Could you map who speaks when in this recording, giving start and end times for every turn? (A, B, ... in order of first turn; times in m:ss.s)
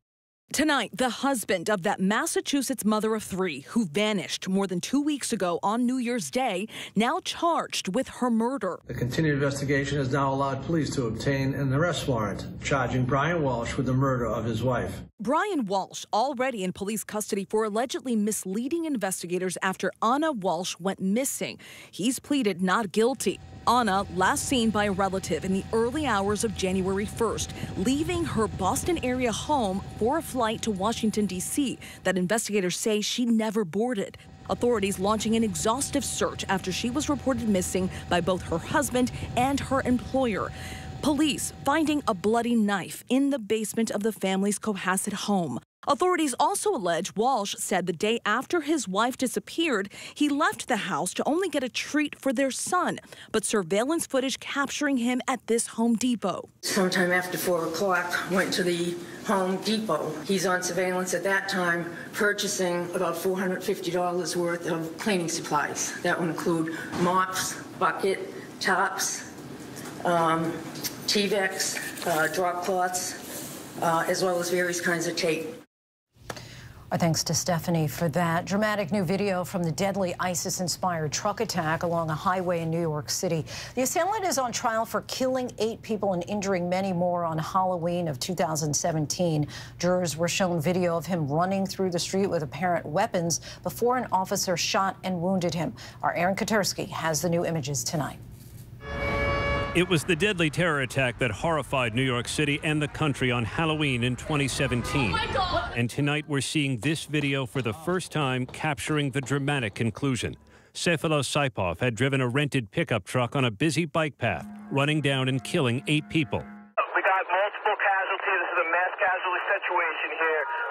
0:00.5-0:08.8 A
0:08.9-0:15.0 B
0:15.2-0:56.5 A
0:56.6-1:09.3 C
1:10.0-1:15.6 C
1:16.9-1:38.2 D
1:39.7-1:56.5 E
1:56.9-2:00.5 F